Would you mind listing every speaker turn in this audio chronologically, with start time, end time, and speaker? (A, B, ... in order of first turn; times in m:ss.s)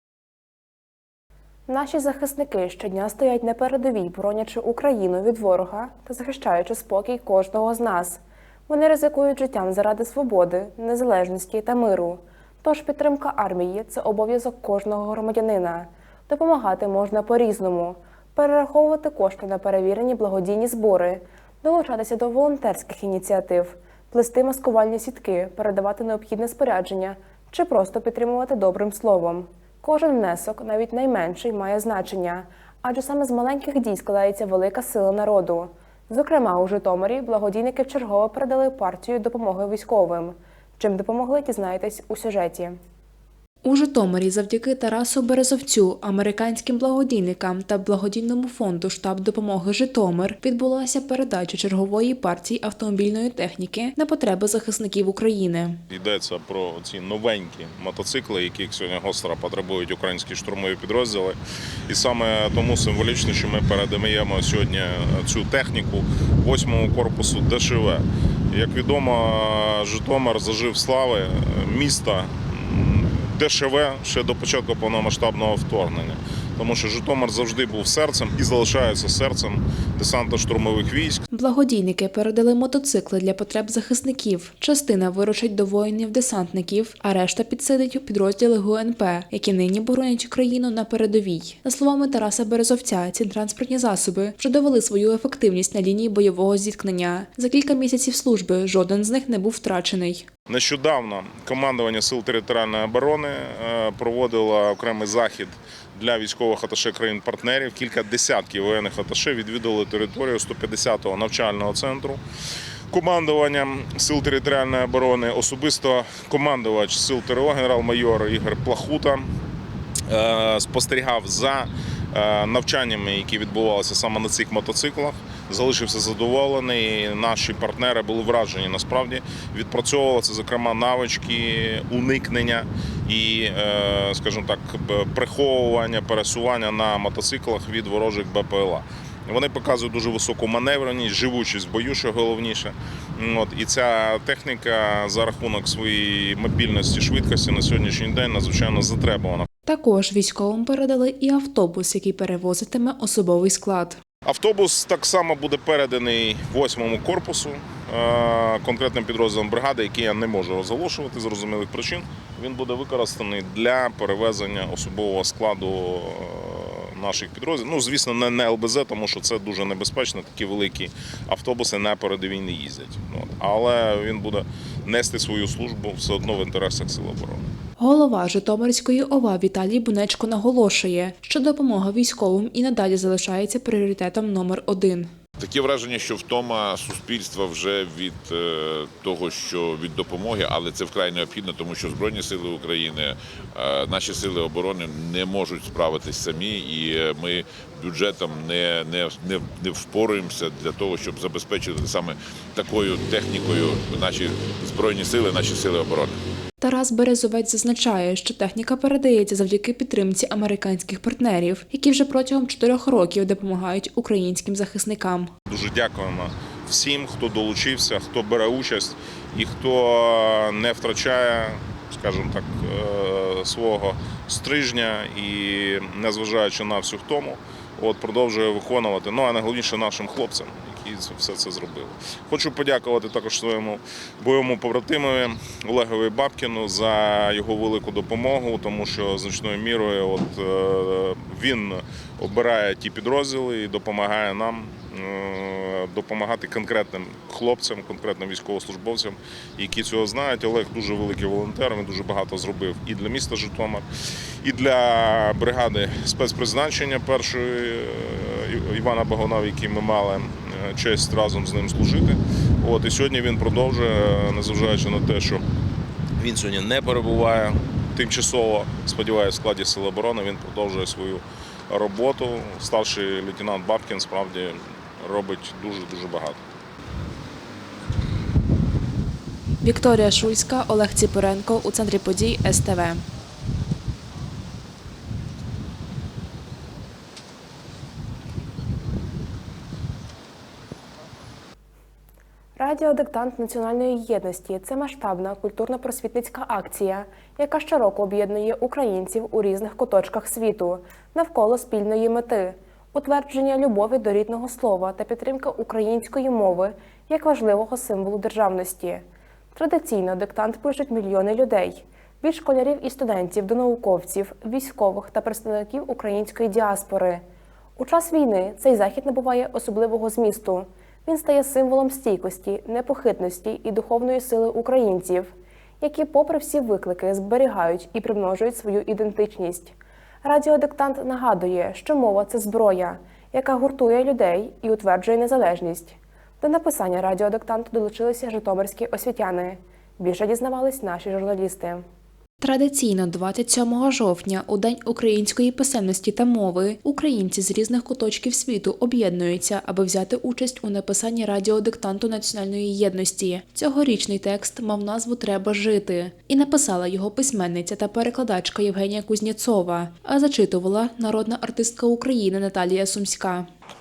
0:01.7-0:42.8 A
0:43.6-0:55.8 B
0:55.9-1:21.2 C
1:21.3-1:40.3 B
1:40.5-1:52.2 C
1:52.9-1:59.3 C
2:00.1-2:29.5 C
2:29.6-2:34.0 B
2:34.2-2:57.5 C
2:57.8-3:05.1 B
3:05.4-3:26.2 D
3:26.6-3:35.3 B
3:35.5-4:13.8 C
4:14.4-4:25.4 C
4:26.2-4:36.4 C
4:39.6-4:43.0 B
4:52.6-5:17.2 A
5:17.8-5:41.8 A
5:42.4-6:03.5 B